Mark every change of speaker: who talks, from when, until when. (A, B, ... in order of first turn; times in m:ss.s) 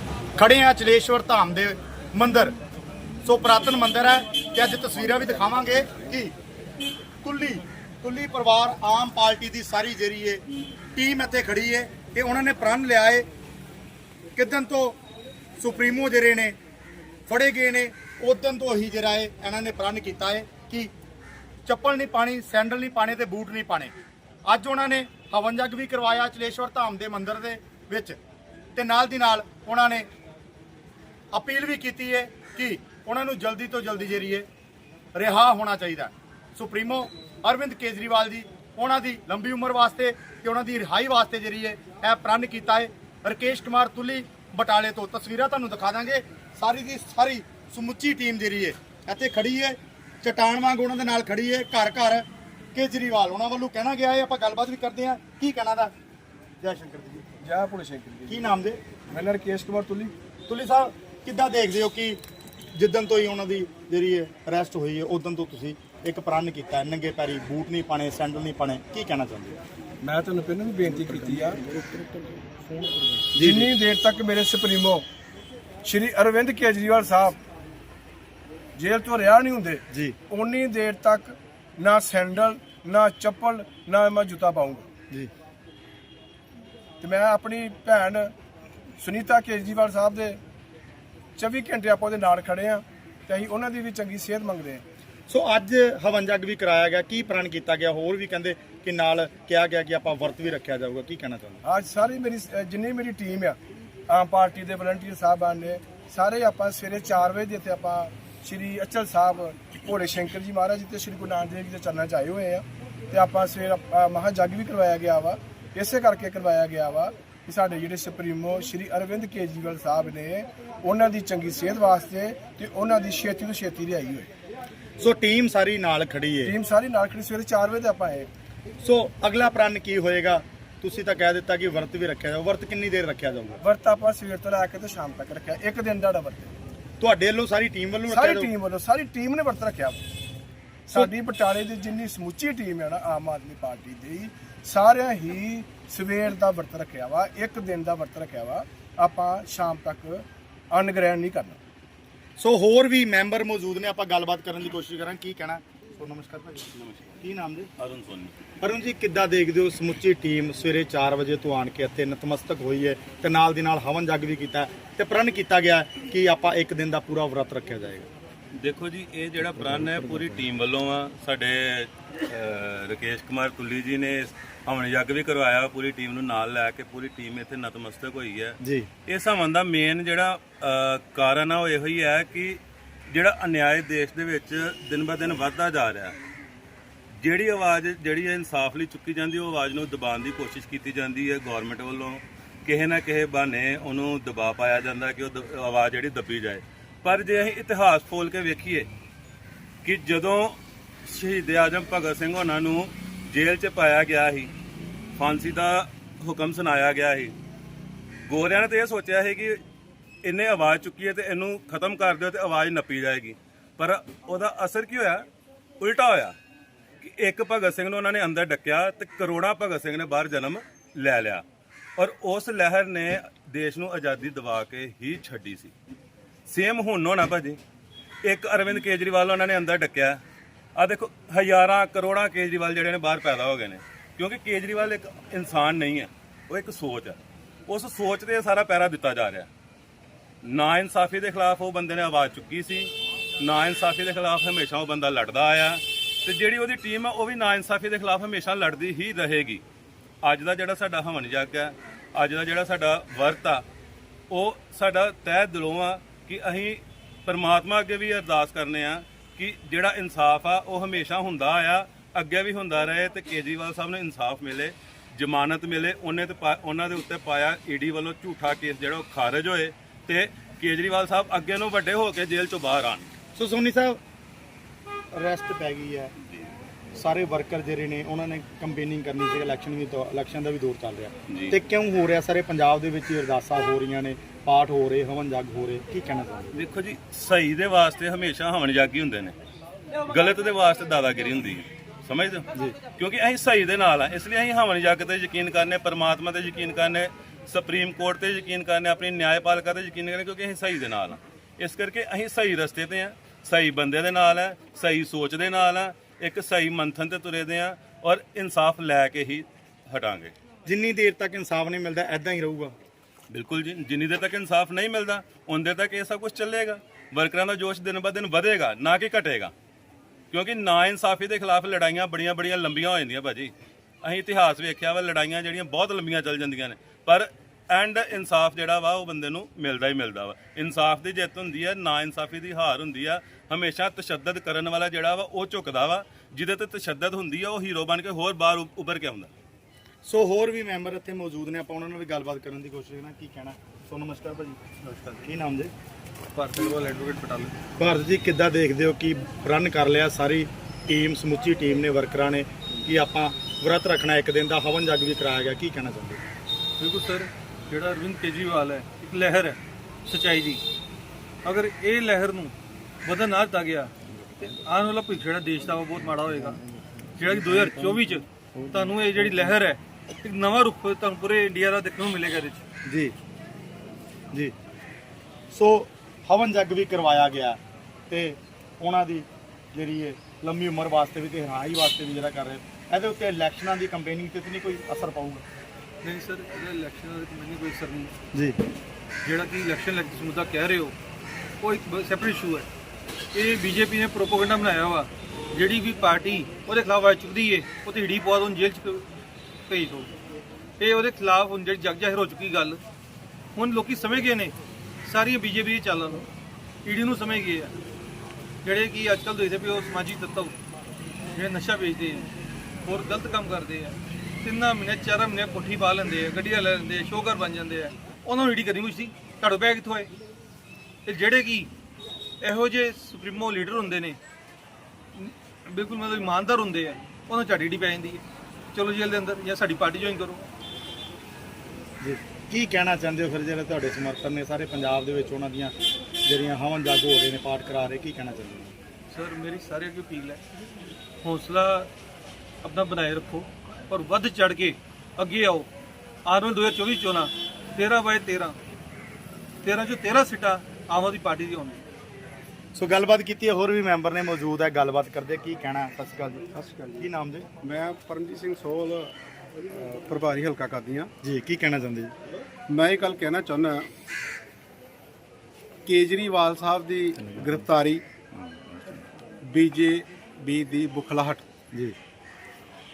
0:00.4-0:02.6 A
0:03.2-0:06.3 A
0:07.2-0:10.4 A
0:11.0-0:13.3 A
0:14.4-0:15.0 A
0:15.6-0:16.6 A
0:17.3-0:20.9 A
0:21.7-0:23.9 A
0:24.5-0:28.2 A
0:28.8-0:30.1 A
0:31.3-0:34.5 A
0:35.2-0:55.9 A
0:56.6-0:57.2 A
0:57.4-0:58.6 B
0:58.3-0:58.8 A
0:59.1-1:00.1 B
1:00.5-1:02.2 A
1:02.7-1:09.6 A
1:10.0-1:11.6 B
1:13.4-1:13.7 A
1:13.4-1:15.1 B
1:15.8-1:17.4 B
1:18.8-1:24.9 B
1:19.9-1:20.2 A
1:27.0-1:28.3 B
1:29.0-1:30.4 B
1:31.4-1:34.8 B
1:35.3-1:41.6 A
1:41.6-1:43.6 B
1:44.1-2:04.3 B
2:05.0-2:06.6 A
2:06.4-2:08.3 B
2:08.8-2:13.6 A
2:13.6-2:16.5 B
2:17.0-2:18.5 A
2:18.1-2:20.0 B
2:20.9-2:31.6 B
2:32.4-2:36.7 A
2:36.8-2:37.2 C
2:37.2-2:37.7 A
2:37.8-2:38.4 C
2:38.6-2:48.1 A
2:48.6-3:06.2 C
2:58.6-2:58.9 A
3:07.1-3:18.9 C
3:19.8-3:24.5 C
3:25.2-3:27.3 C
3:28.3-3:29.6 C
3:30.2-3:35.3 C
3:35.8-3:36.4 C
3:37.0-3:41.4 C
3:42.0-3:45.7 C
3:46.5-3:47.6 C
3:48.2-3:50.2 C
3:50.8-3:59.5 C
4:00.4-4:09.6 C
4:10.2-4:13.6 C
4:14.3-4:33.1 C
4:33.4-4:34.0 A
4:35.1-4:36.1 A
4:36.9-4:46.5 A
4:41.3-4:41.6 C
4:46.5-4:49.4 C
4:50.1-5:10.3 C
5:10.7-5:12.7 A
5:13.3-5:19.5 C
5:20.3-5:39.3 C
5:40.0-5:45.7 A
5:46.3-5:47.6 D
5:47.8-5:56.2 A
5:56.8-6:00.6 D
6:01.4-6:03.9 D
6:04.4-6:06.6 D
6:07.2-6:12.6 D
6:12.9-6:13.2 A
6:15.5-6:17.6 A
6:18.1-6:25.4 A
6:26.0-6:28.1 D
6:29.2-6:31.0 D
6:31.6-6:32.7 D
6:33.3-6:39.1 D
6:39.7-6:40.1 D
6:40.8-6:42.8 D
6:43.6-6:46.3 D
6:46.8-6:47.8 D
6:48.6-6:50.6 D
6:51.3-6:52.3 D
6:52.8-7:00.1 D
7:01.0-7:01.7 D
7:02.4-7:04.2 D
7:05.2-7:10.5 D
7:12.0-7:15.7 A
7:16.2-7:18.7 A
7:19.1-7:20.4 D
7:21.2-7:21.9 D
7:22.6-7:25.7 D
7:26.3-7:28.6 D
7:29.6-7:31.8 D
7:32.8-7:36.5 A
7:36.5-7:37.1 E
7:37.0-7:37.5 A
7:37.6-7:39.1 E
7:39.7-7:41.1 E
7:41.2-7:42.1 A
7:42.7-7:43.9 E
7:45.9-7:48.0 E
7:49.4-7:51.4 E